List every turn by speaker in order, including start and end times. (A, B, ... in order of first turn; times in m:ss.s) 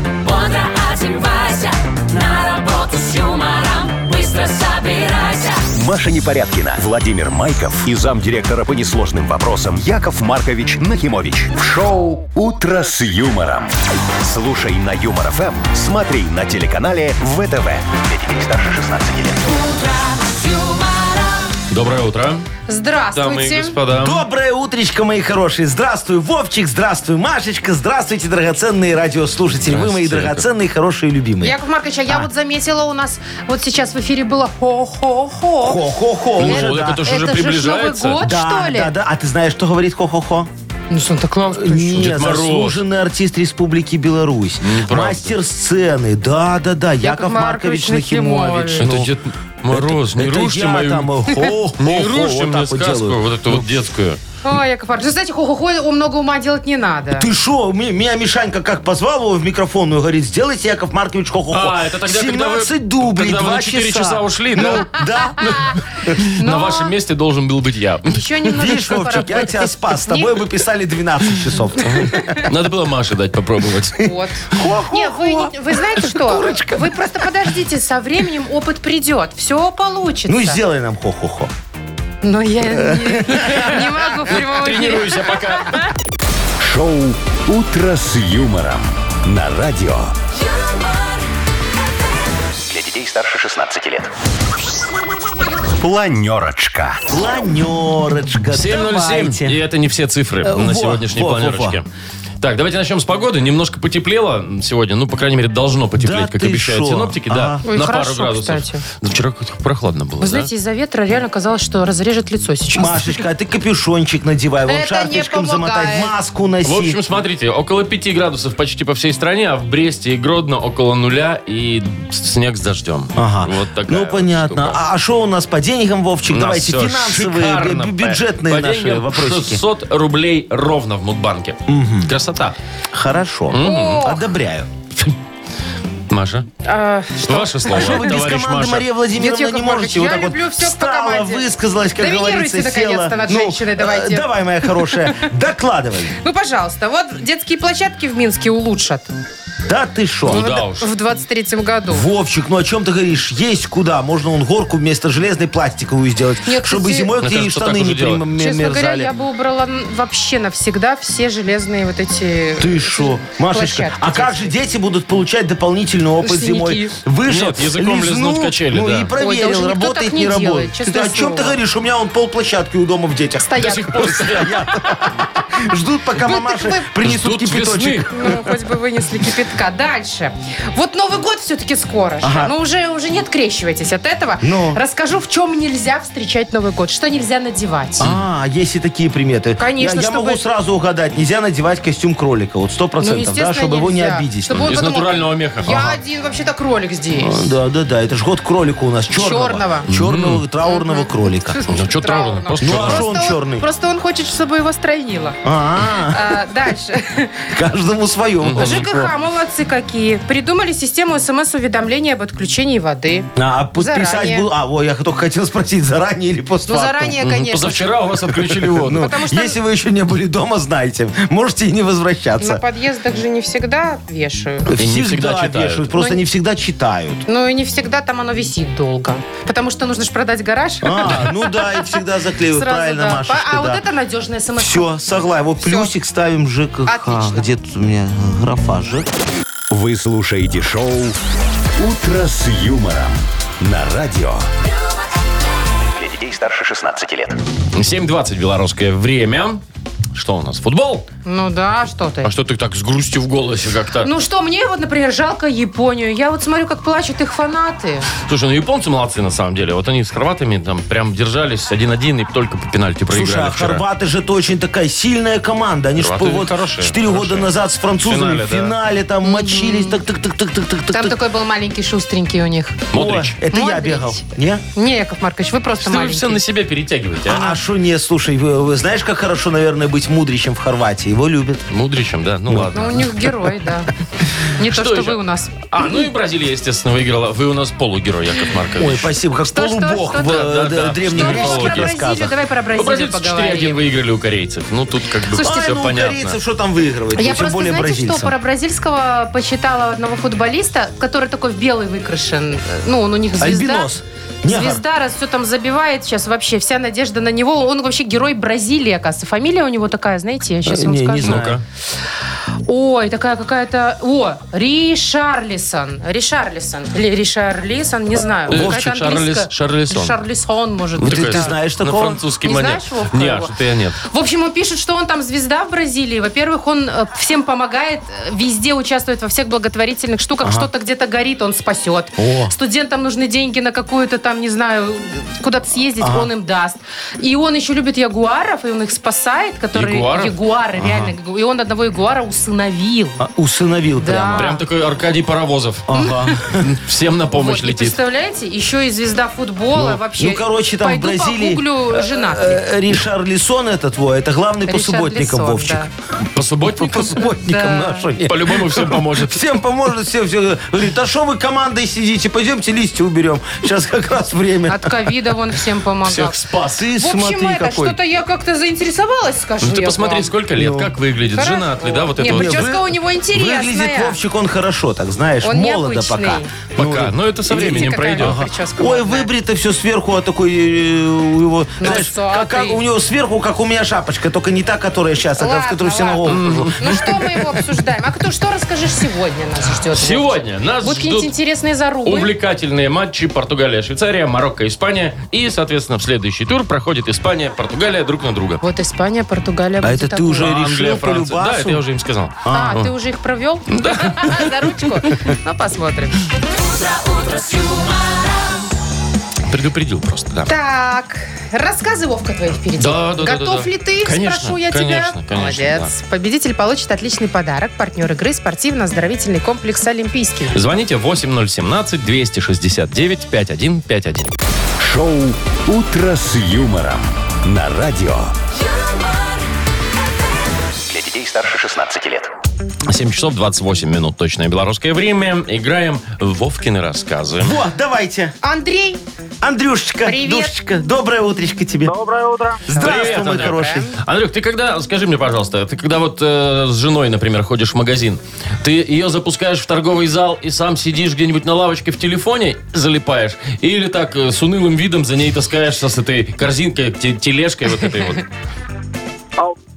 0:00.3-0:01.6 A
0:02.3-0:04.8 A
0:05.6-0:19.6 B
0:21.7-0:22.4 C
0:22.7-0:23.7 D
0:23.1-0:24.2 C
0:23.9-0:31.5 E
0:29.6-0:30.4 C
0:31.4-0:35.8 D
0:35.6-0:37.0 E
0:36.4-0:38.9 D
0:36.4-0:38.2 C
0:38.2-0:40.5 E
0:40.9-0:42.0 D
0:41.5-0:49.1 E
0:41.9-0:42.8 C
0:44.6-0:45.4 C
0:47.0-0:48.9 D
0:48.8-0:51.1 C
0:49.7-0:53.7 E
0:51.8-0:54.2 C
0:54.4-0:57.3 D
0:57.1-1:06.1 E
1:01.5-1:08.2 C
1:06.4-1:06.9 D
1:08.1-1:10.4 D
1:08.5-1:12.4 E
1:11.8-1:14.1 C
1:11.9-1:12.5 D
1:14.0-1:20.6 D
1:14.6-1:17.4 E
1:20.3-1:21.5 E
1:22.2-1:25.9 D
1:22.7-1:23.7 E
1:23.3-1:25.8 C
1:26.6-1:30.1 B
1:32.6-1:34.1 B
1:35.8-1:37.0 B
1:37.1-1:39.6 E
1:38.5-1:41.8 C
1:40.4-1:41.8 E
1:42.4-1:50.5 C
1:46.0-1:47.6 E
1:47.6-1:48.8 D
1:50.2-1:53.2 D
1:52.7-1:57.0 E
1:54.7-1:56.1 D
1:56.6-2:04.8 C
2:03.2-2:09.6 E
2:06.3-2:12.6 C
2:11.7-2:12.1 E
2:12.9-2:14.7 E
2:13.5-2:14.0 C
2:13.6-2:14.2 D
2:16.1-2:16.5 C
2:16.6-2:18.1 D
2:17.2-2:18.9 C
2:17.7-2:26.2 E
2:19.2-2:21.5 D
2:22.0-2:25.1 D
2:26.2-2:29.1 D
2:29.7-2:30.5 E
2:30.2-2:30.8 C
2:30.3-2:32.0 D
2:31.9-2:39.1 E
2:36.4-2:37.1 D
2:37.2-2:38.2 C
2:38.4-2:44.5 D
2:42.6-2:58.5 E
2:46.2-2:46.9 D
2:47.2-2:49.1 C
2:49.2-2:51.6 D
2:53.4-2:55.1 D
2:53.6-2:54.6 C
2:56.2-2:56.9 D
2:57.0-2:58.1 C
2:58.1-3:08.1 D
3:02.2-3:02.5 E
3:04.4-3:04.8 E
3:08.0-3:14.7 E
3:09.6-3:10.4 D
3:13.0-3:17.4 D
3:14.5-3:15.8 C
3:15.6-3:16.0 E
3:17.1-3:21.6 E
3:19.1-3:19.9 D
3:19.9-3:20.4 C
3:20.6-3:25.4 D
3:21.7-3:23.1 C
3:22.6-3:23.6 E
3:25.4-3:26.4 E
3:25.9-3:27.5 D
3:27.5-3:29.1 E
3:28.4-3:28.8 C
3:28.6-3:34.5 D
3:33.4-3:37.1 E
3:36.7-3:37.8 D
3:37.2-3:39.1 C
3:38.3-3:42.6 E
3:38.9-3:39.6 D
3:42.4-3:44.7 D
3:44.6-3:47.2 E
3:44.8-3:45.9 C
3:45.9-3:46.2 D
3:47.3-3:54.9 D
3:50.8-3:53.8 E
3:54.6-3:59.1 E
3:55.6-3:55.9 D
3:56.9-3:57.4 D
3:59.7-4:01.2 B
4:01.8-4:04.5 B
4:05.9-4:07.4 B
4:07.7-4:09.6 C
4:10.1-4:11.0 C
4:11.2-4:12.3 D
4:12.2-4:14.1 C
4:14.0-4:18.1 D
4:18.2-4:23.8 C
4:23.1-4:31.2 E
4:26.0-4:27.5 C
4:28.0-4:28.7 C
4:29.2-4:30.0 D
4:30.9-4:32.8 D
4:32.9-4:33.4 C
4:32.9-4:34.6 E
4:33.5-4:36.4 D
4:35.8-4:37.4 C
4:37.2-4:41.6 E
4:41.7-4:43.2 C
4:42.5-4:42.9 E
4:42.7-4:43.9 D
4:44.6-4:45.7 D
4:44.6-4:49.1 C
4:48.8-4:52.3 E
4:49.4-4:50.5 D
4:50.2-4:52.0 C
4:51.0-4:53.8 D
4:52.7-4:56.4 C
4:55.3-4:58.3 E
4:55.4-4:55.7 D
4:57.1-5:03.9 D
5:03.4-5:04.8 E
5:04.4-5:11.5 D
5:10.6-5:11.6 E
5:11.2-5:11.6 C
5:12.6-5:21.5 D
5:18.5-5:18.8 E
5:18.5-5:20.2 C
5:21.0-5:24.0 C
5:21.0-5:22.2 E
5:22.4-5:43.2 D
5:30.4-5:30.7 E
5:32.2-5:32.5 E
5:36.0-5:36.3 E
5:39.7-5:40.3 C
5:40.8-5:41.1 E
5:43.2-5:44.5 E
5:44.0-5:44.6 D
5:44.3-5:45.9 C
5:45.9-5:46.6 E
5:46.5-5:47.9 C
5:47.3-5:52.6 D
5:49.8-5:55.9 E
5:54.7-5:55.9 D
5:56.3-5:57.3 C
5:56.8-6:05.1 E
5:57.1-5:58.1 D
5:58.2-5:59.5 C
6:04.7-6:06.4 D
6:06.0-6:06.8 C
6:06.6-6:08.0 E
6:07.0-6:10.3 D
6:09.6-6:12.7 C
6:10.6-6:10.9 E
6:11.3-6:14.2 D
6:12.2-6:27.3 E
6:15.4-6:16.5 D
6:16.8-6:18.4 C
6:17.5-6:19.3 D
6:21.8-6:22.8 D
6:25.4-6:32.3 D
6:26.2-6:27.0 C
6:29.9-6:31.3 C
6:32.0-6:38.6 C
6:38.6-6:40.5 D
6:39.8-6:41.8 E
6:40.4-6:42.4 C
6:42.4-6:42.9 E
6:42.5-6:46.3 D
6:43.7-6:44.9 C
6:46.7-6:48.0 A
6:49.5-6:50.5 C
6:50.5-7:00.6 D
6:52.8-6:55.9 C
7:00.5-7:04.3 C
7:04.8-7:08.3 B
7:10.8-7:12.3 B
7:12.9-7:17.6 C
7:17.4-7:18.3 E
7:18.4-7:19.0 D
7:19.4-7:21.9 E
7:20.0-7:20.5 D
7:21.8-7:22.6 A
7:22.7-7:23.9 E
7:22.7-7:24.0 D
7:22.8-7:38.2 C